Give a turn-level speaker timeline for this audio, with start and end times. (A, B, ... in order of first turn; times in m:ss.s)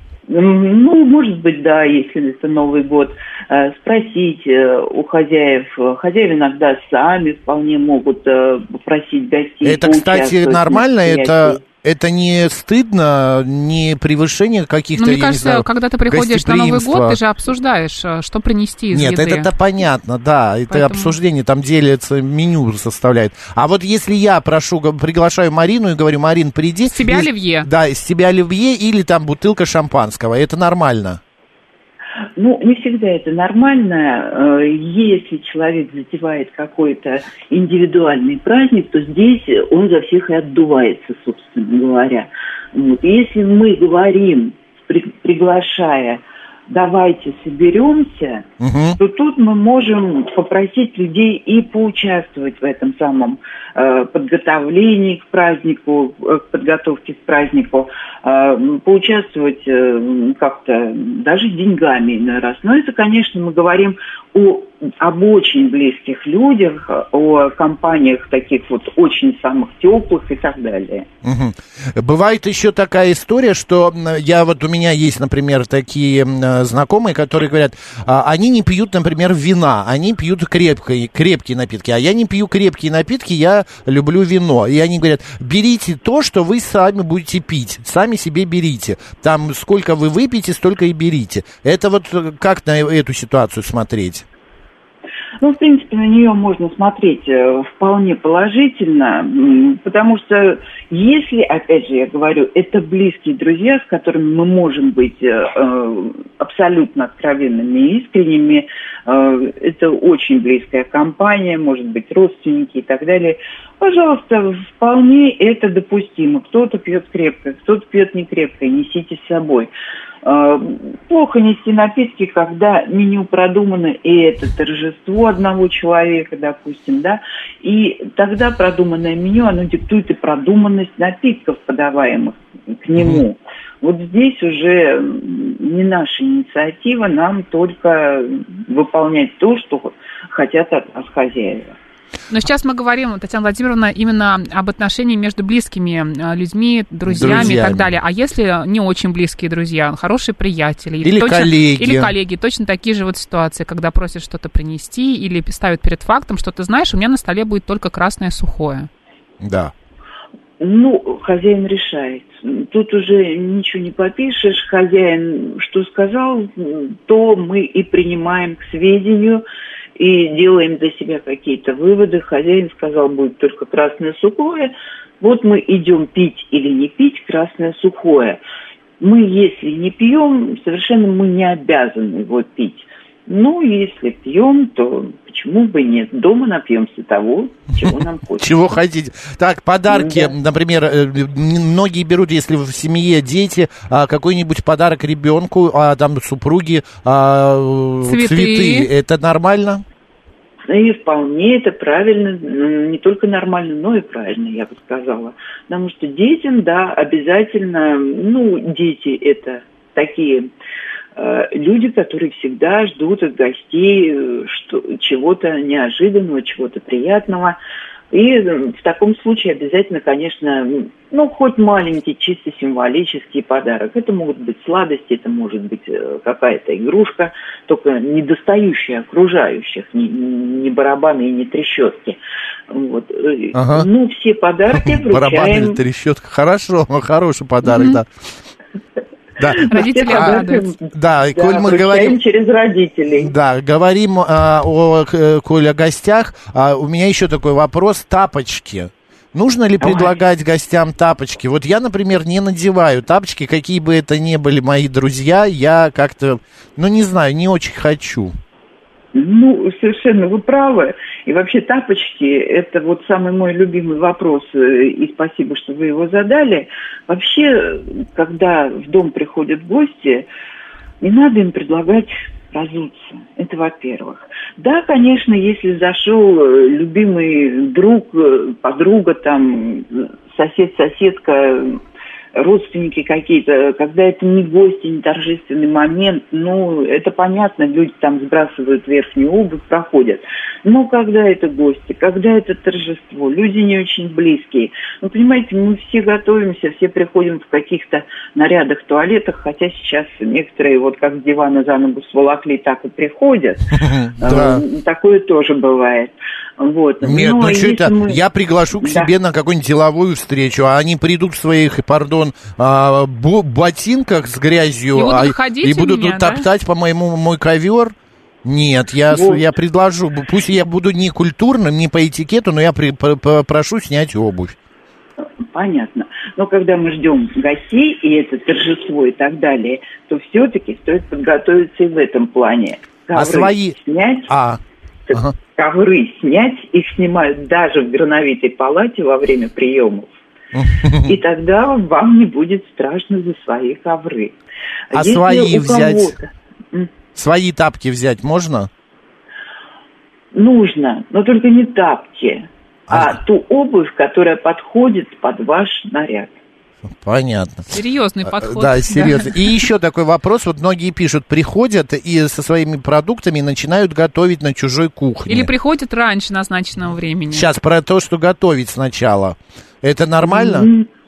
0:00.3-0:11.6 A
0:09.6-0:17.2 B
0:15.0-0:19.5 C
0:18.9-0:31.2 B
0:20.7-0:21.2 C
0:26.8-0:27.7 C
0:32.4-0:48.5 A
0:48.6-0:49.0 B
0:49.0-1:11.1 A
1:11.2-1:34.2 B
1:35.4-1:59.7 A
2:00.2-2:21.8 A
2:22.3-2:38.9 C
2:27.1-2:27.9 B
2:31.0-2:32.1 B
2:39.4-2:39.7 B
2:40.6-2:49.4 A
2:50.0-2:58.4 A
2:59.0-3:08.5 A
3:08.4-3:19.8 B
3:09.9-3:10.3 A
3:18.0-3:18.9 C
3:20.7-3:30.5 A
3:31.2-3:37.6 A
3:38.1-3:52.2 A
3:52.7-3:55.8 A
3:53.5-3:53.9 B
3:54.8-3:58.1 B
3:57.7-3:58.0 C
3:59.4-4:00.4 B
3:59.4-4:03.3 A
3:59.7-4:00.7 C
4:00.9-4:02.2 B
4:03.2-4:18.4 B
4:09.8-4:10.2 A
4:19.1-4:30.3 A
4:31.0-4:41.8 A
4:42.4-5:08.2 A
5:03.8-5:04.6 B
5:07.0-5:24.6 B
5:08.8-5:09.1 A
5:14.9-5:16.5 C
5:19.1-5:19.5 A
5:25.5-5:34.3 A
5:33.1-5:33.8 B
5:34.3-5:34.6 B
5:35.1-5:40.2 A
5:40.5-5:41.2 B
5:41.0-5:44.4 A
5:44.9-5:46.9 A
5:44.9-5:46.2 B
5:47.2-5:48.7 B
5:50.3-5:56.4 A
5:56.9-5:57.7 B
5:57.7-5:59.5 C
5:58.3-6:05.5 B
6:05.3-6:07.5 C
6:07.3-6:10.7 B
6:10.2-6:10.9 A